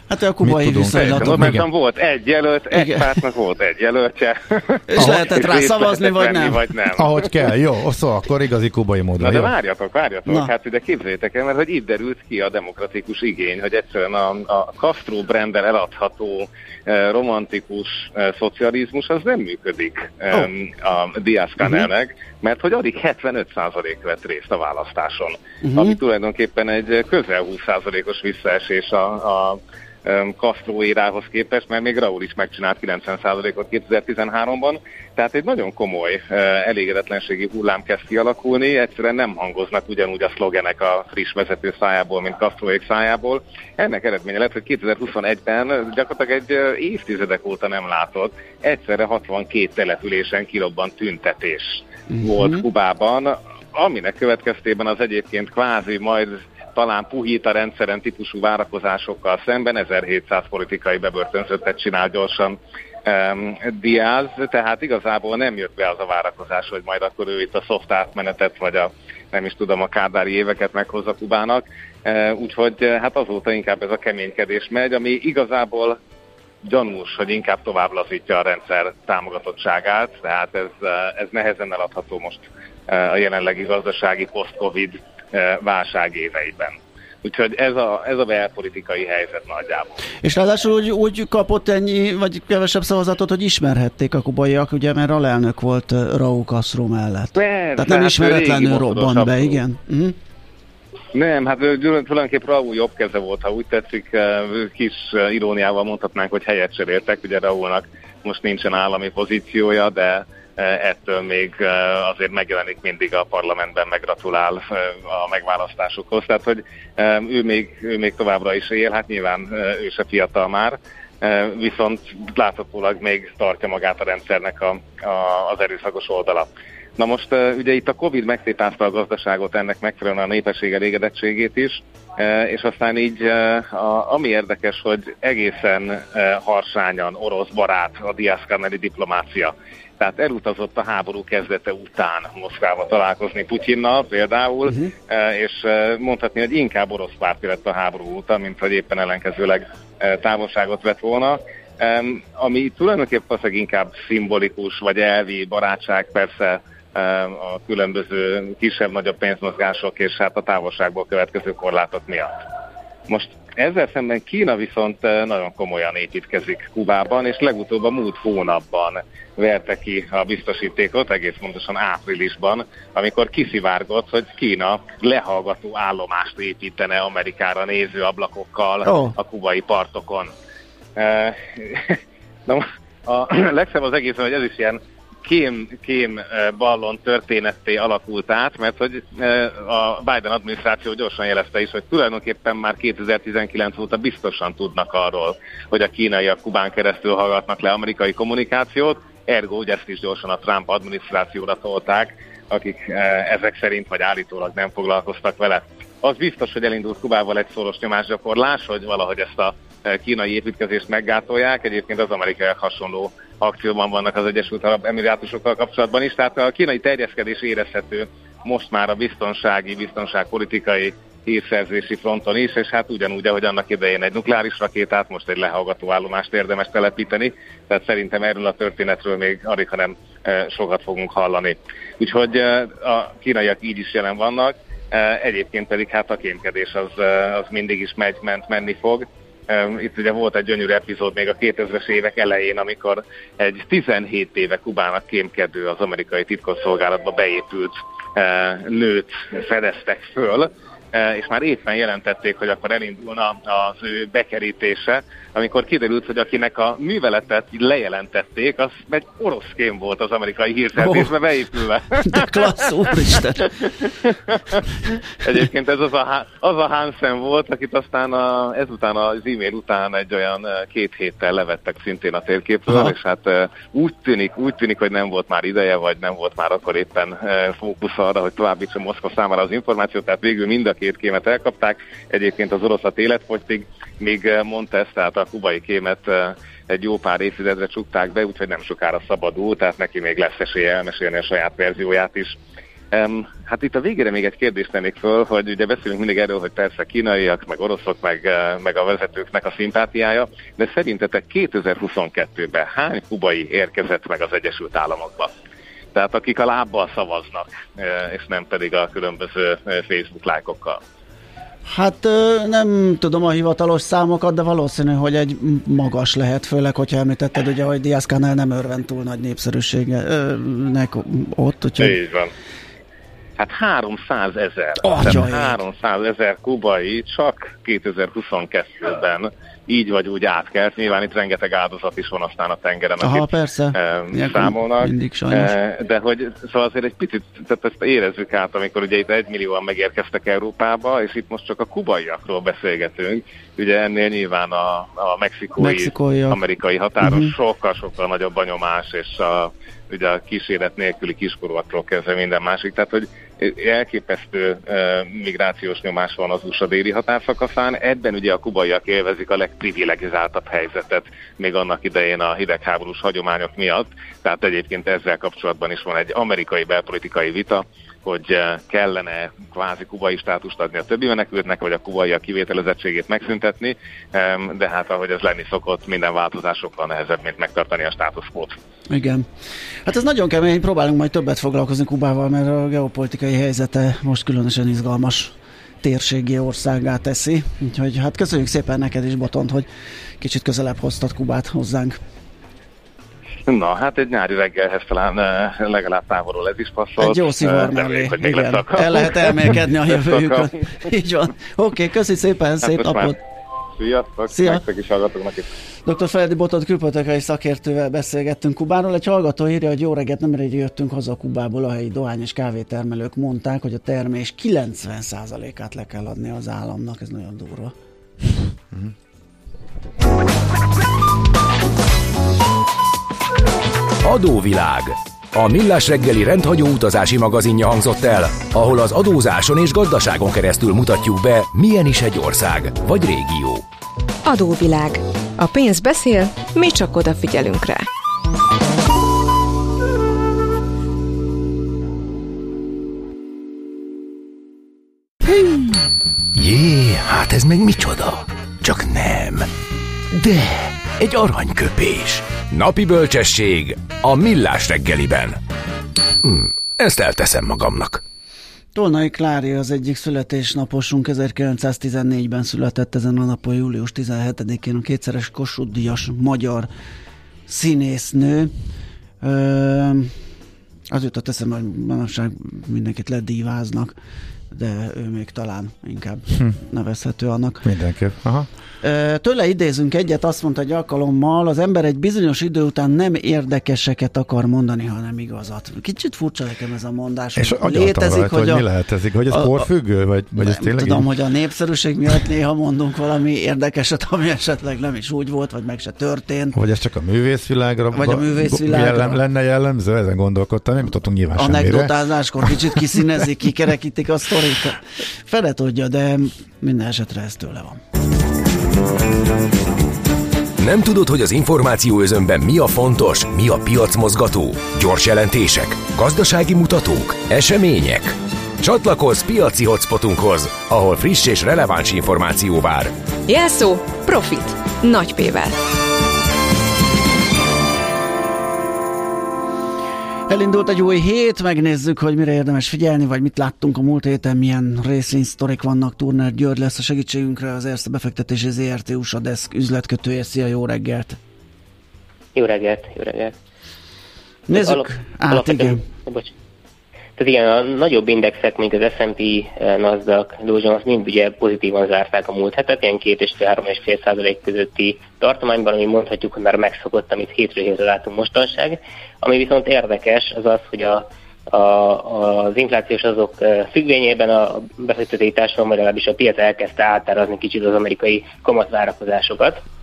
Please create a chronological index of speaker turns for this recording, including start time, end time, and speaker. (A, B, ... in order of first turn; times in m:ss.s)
0:00.1-0:01.6 A
0:00.4-0:01.6 B
0:01.0-0:07.5 C
0:02.7-0:03.2 A
0:04.9-0:06.6 A
0:05.0-0:05.2 B
0:07.0-0:09.5 B
0:09.2-1:16.0 C
0:25.6-0:26.0 A
0:52.2-0:52.6 A
1:16.6-1:29.9 C
1:30.2-1:40.2 A
1:37.4-1:39.6 C
1:41.1-2:42.4 C
2:43.1-3:00.3 C
2:58.8-2:59.2 A
3:01.0-4:23.4 C
4:20.7-4:21.1 A
4:21.9-4:23.6 A
4:24.1-4:52.4 C
4:32.7-4:32.9 A
4:52.9-5:05.3 C
5:05.9-5:10.8 C
5:11.6-5:22.0 A
5:21.8-5:22.3 C
5:23.4-6:18.6 C
5:24.8-5:25.6 A
5:33.0-5:35.5 A
5:45.6-5:46.4 A
5:47.0-5:47.3 A
6:18.9-6:19.3 A
6:19.8-6:29.7 A
6:30.2-6:32.0 A
6:33.5-6:40.5 C
6:37.0-6:43.2 A
6:42.6-6:43.1 C
6:43.8-6:45.5 C
6:44.3-6:44.6 A
6:45.8-6:57.7 A
7:04.0-7:13.6 D
7:14.2-7:17.8 E
7:25.3-7:25.6 D
7:26.3-7:29.5 D
7:30.1-7:35.4 D
7:36.2-7:38.0 D
7:38.7-7:46.7 A
7:47.5-7:48.5 A
7:49.2-7:50.1 A
7:50.9-7:53.9 A
7:54.5-7:57.7 A
7:57.6-7:58.5 B
7:58.8-8:08.6 A
8:07.4-8:11.0 B
8:09.3-8:09.7 A
8:10.4-8:16.6 A
8:16.5-8:22.9 B
8:17.9-8:19.2 A
8:21.3-8:27.8 A
8:30.6-8:42.9 D
8:43.3-8:45.6 E
8:50.3-9:01.2 A
9:02.3-9:03.3 F
9:04.5-9:05.8 A
9:04.5-9:06.3 F
9:07.2-9:29.6 F